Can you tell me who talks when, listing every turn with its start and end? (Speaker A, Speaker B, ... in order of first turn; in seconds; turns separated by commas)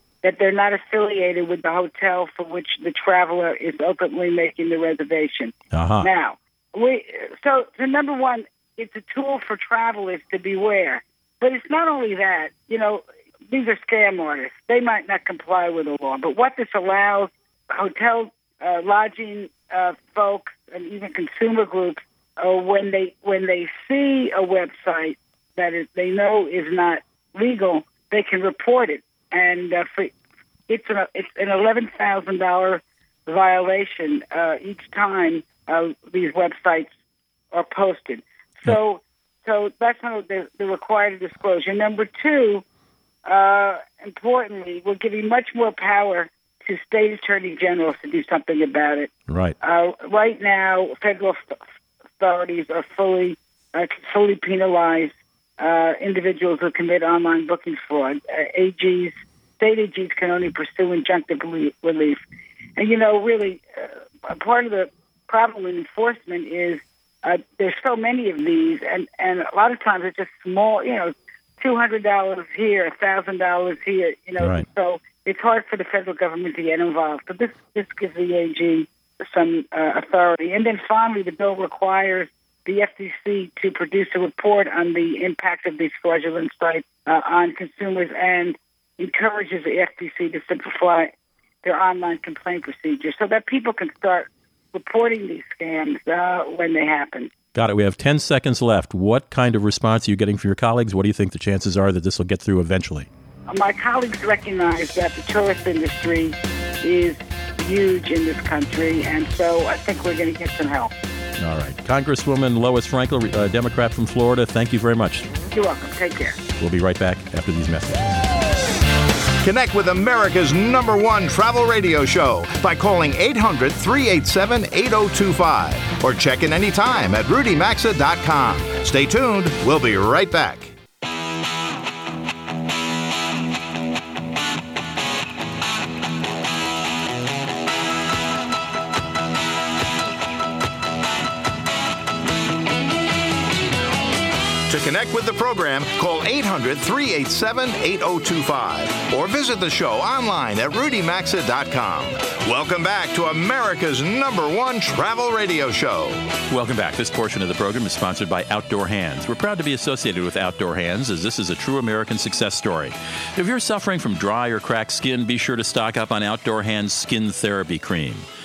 Speaker A: 0.2-30.1, Speaker B: 5.7-6.1, Speaker A: 30.7-36.9, Speaker A: 37.5-42.6, Speaker A: 43.2-49.1, Speaker B: 49.3-49.5, Speaker A: 49.6-51.6, Speaker A: 52.2-62.2, Speaker A: 62.8-91.1, Speaker B: 74.4-74.7, Speaker A: 91.6-97.3, Speaker B: 97.5-103.1, Speaker A: 103.5-110.9, Speaker B: 111.4-115.3, Speaker A: 115.5-116.4, Speaker B: 116.6-118.2, Speaker C: 119.4-130.7, Speaker C: 144.7-156.3, Speaker B: 156.5-168.2